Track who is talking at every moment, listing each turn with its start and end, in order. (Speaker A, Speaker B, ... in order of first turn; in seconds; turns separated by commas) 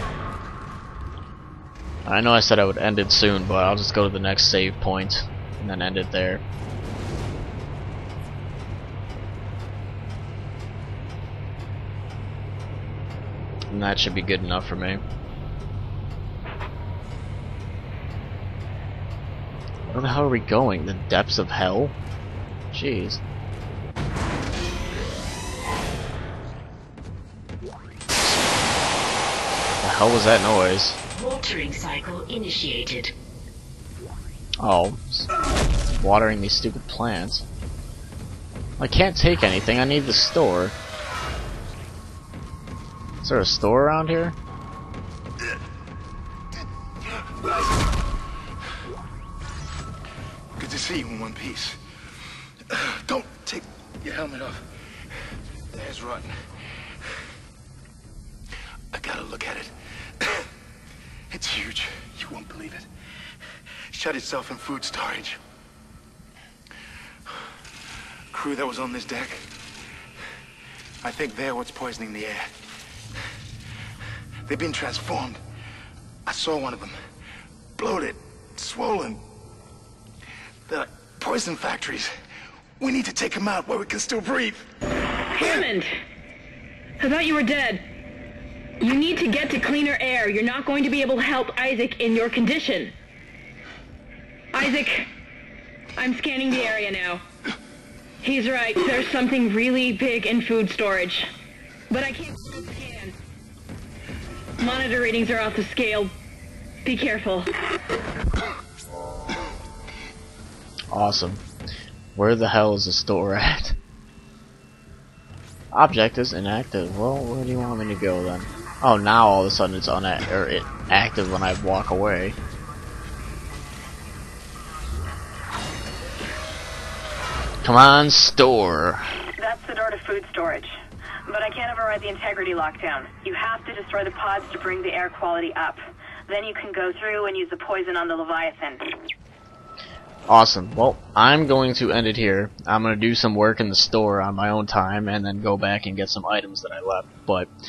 Speaker A: 2.1-6.4, Speaker A: 13.7-15.0, Speaker A: 19.9-21.9, Speaker A: 22.7-23.2, Speaker A: 28.2-28.7, Speaker A: 29.8-31.0, Speaker B: 31.1-33.1, Speaker A: 34.6-35.3, Speaker A: 35.9-37.4, Speaker A: 38.8-40.8, Speaker A: 43.2-44.4, Speaker C: 47.1-47.5, Speaker C: 50.5-51.8, Speaker C: 52.7-54.7, Speaker C: 55.7-56.4, Speaker C: 58.9-60.5, Speaker C: 61.3-62.9, Speaker C: 63.9-65.4, Speaker C: 68.3-69.5, Speaker C: 71.0-72.5, Speaker C: 74.5-75.4, Speaker C: 76.2-77.0, Speaker C: 77.8-79.2, Speaker C: 80.7-82.1, Speaker C: 82.8-84.7, Speaker D: 85.4-85.9, Speaker D: 87.0-87.8, Speaker D: 88.8-92.9, Speaker D: 94.5-95.1, Speaker D: 96.0-97.2, Speaker D: 98.2-101.3, Speaker D: 101.9-103.1, Speaker D: 104.6-106.1, Speaker D: 106.8-107.5, Speaker A: 110.9-111.4, Speaker A: 112.1-113.8, Speaker A: 115.7-122.3, Speaker A: 127.6-129.0, Speaker E: 129.4-130.7, Speaker E: 131.3-138.8, Speaker A: 140.3-147.5